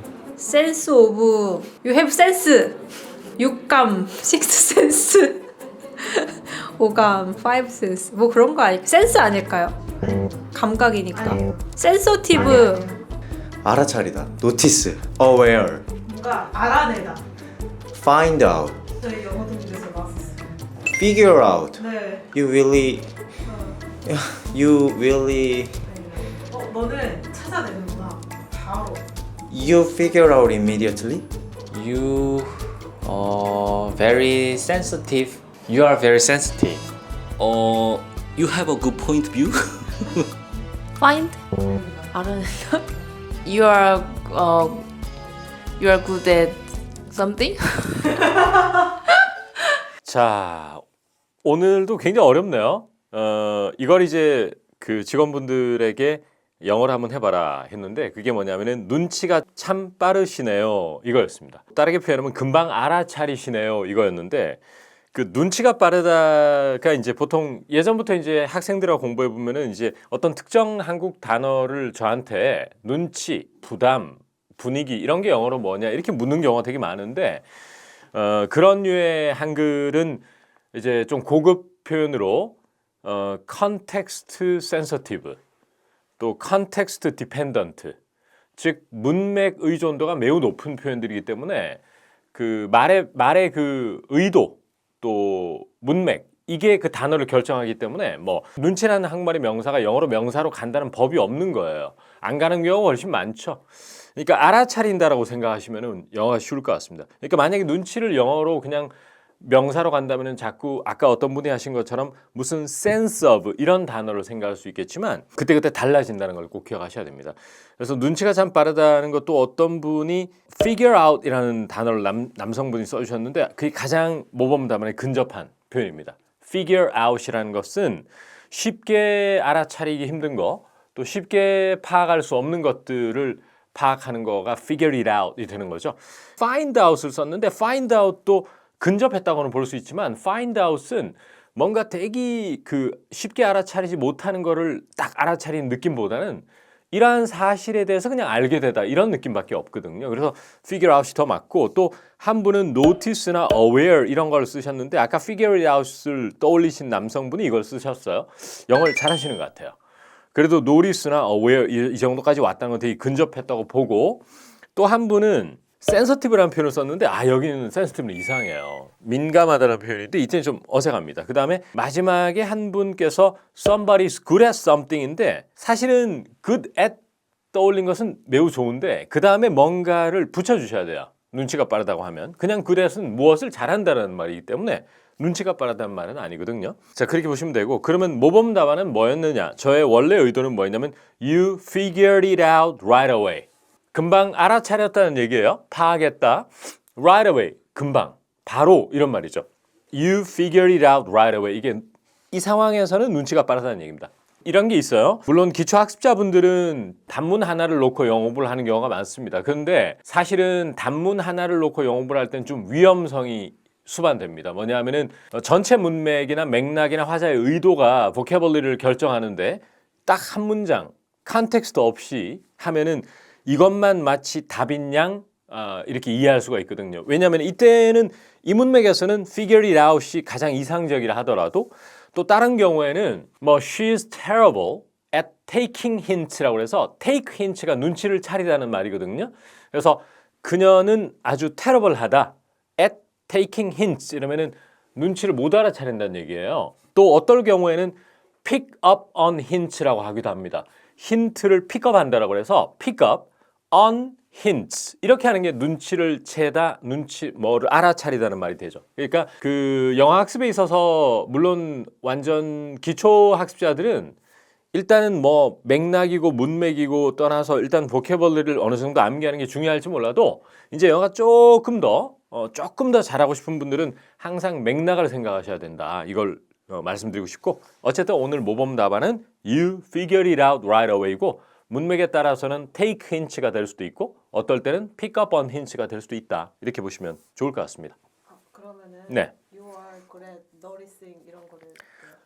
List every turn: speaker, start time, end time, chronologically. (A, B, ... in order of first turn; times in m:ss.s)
0:00.4-0:02.8 A
0:03.4-0:05.4 A
0:06.0-0:12.8 A
0:12.4-0:12.9 B
0:13.6-0:15.8 C
0:16.0-0:17.2 B
0:17.9-0:18.8 C
0:19.0-0:20.4 B
0:20.9-0:23.1 C
0:21.8-0:22.2 B
0:23.4-0:23.7 B
0:24.0-0:25.8 C
0:25.9-0:29.0 B
0:29.5-0:31.2 C
0:31.7-0:36.8 D
0:37.4-0:40.3 E
0:41.0-0:42.8 F
0:43.4-0:44.9 F
0:45.8-0:48.1 F
0:50.0-0:50.8 G
0:51.4-1:04.6 G
1:05.1-1:17.4 G
1:18.1-1:25.4 G
1:26.2-1:28.0 G
1:28.6-1:31.8 G
1:32.3-2:39.8 G
2:40.3-2:44.2 G
2:44.7-2:57.0 G
2:57.5-4:24.2 G
4:24.7-4:48.0 G
4:48.3-4:52.1 B
4:49.1-4:49.3 G